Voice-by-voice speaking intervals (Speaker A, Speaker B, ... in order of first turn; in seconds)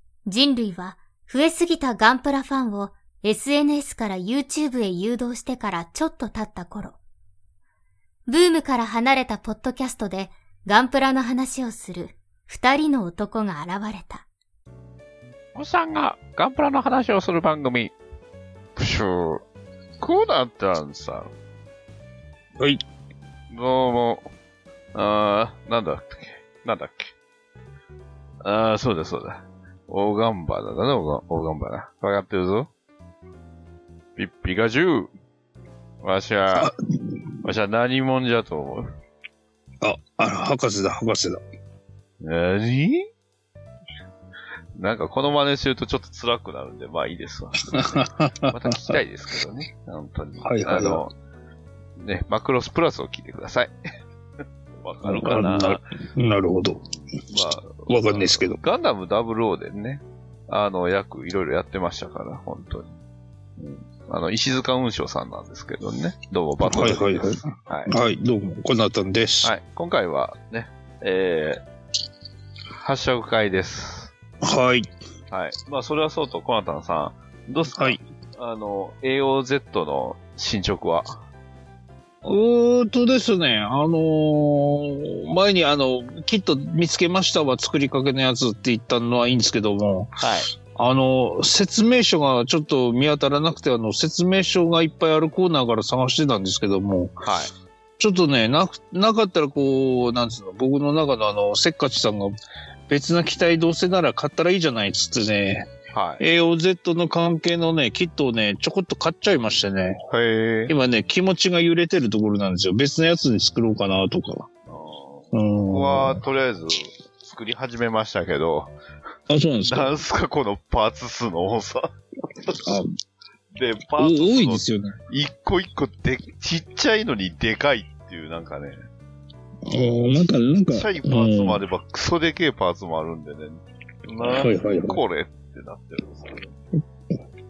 Speaker A: 0.2-7.0, 8.3-14.2
Speaker B: 15.5-17.9, 18.8-19.4, 20.0-21.3, 23.5-24.3, 24.9-27.1, 28.4-32.7, 34.1-35.1, 36.0-36.7, 37.4-38.9, 42.2-43.1, 44.7-51.1, 52.0-53.7, 54.8-55.8, 56.9-63.0, 63.6-67.9, 69.4-71.6, 72.7-74.1, 75.3-81.2, 90.2-90.5, 97.2-97.5, 105.9-106.2, 110.1-110.7, 114.7-118.7, 119.6-121.9, 123.5-128.8, 129.7-136.5
Speaker C: 36.5-37.2, 39.8-41.4, 47.6-49.0, 50.4-51.0, 55.0-56.8, 57.9-58.6, 66.6-69.5, 74.4-74.9, 82.2-97.2, 98.0-102.3, 102.9-110.0, 110.7-114.5, 115.3-116.2, 119.3-119.9, 122.6-122.9, 124.0-125.0, 129.6-131.6, 134.3-135.0